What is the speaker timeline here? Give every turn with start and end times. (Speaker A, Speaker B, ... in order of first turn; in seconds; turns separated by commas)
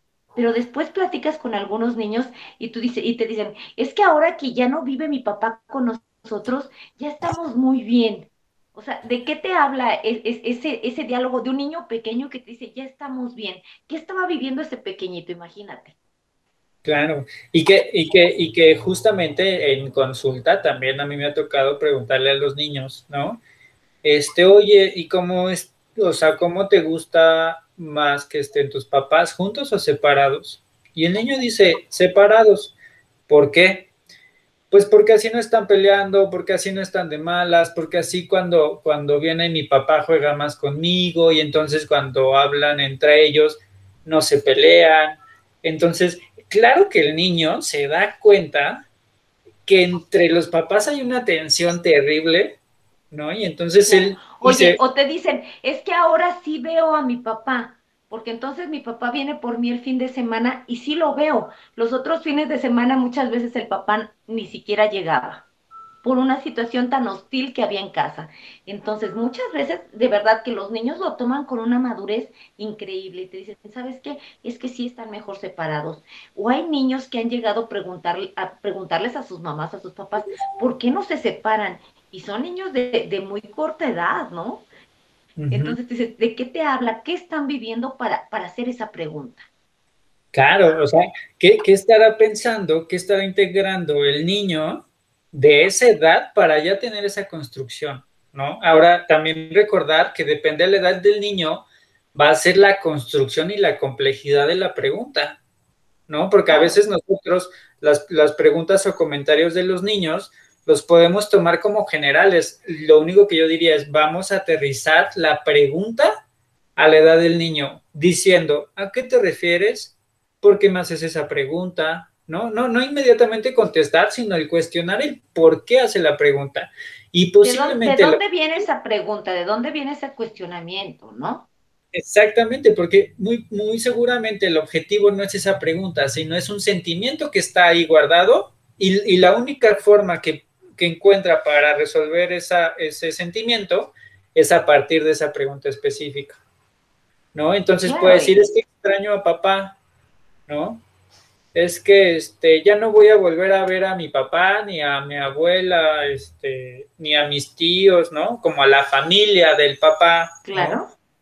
Speaker A: 0.3-15.9, Speaker B: 16.8-23.4, Speaker B: 24.0-32.7, Speaker B: 33.3-33.9, Speaker B: 34.7-48.8, Speaker B: 49.6-52.6, Speaker B: 53.1-54.8, Speaker A: 53.8-65.5, Speaker A: 66.0-84.7, Speaker B: 85.4-85.8, Speaker A: 85.5-89.5, Speaker B: 90.3-105.4, Speaker B: 106.1-116.2, Speaker A: 106.5-106.8, Speaker B: 116.8-128.2, Speaker A: 127.4-131.5, Speaker B: 131.9-146.4, Speaker B: 147.3-149.8, Speaker A: 147.8-148.4, Speaker B: 150.5-150.8, Speaker B: 151.5-160.8, Speaker A: 160.5-160.9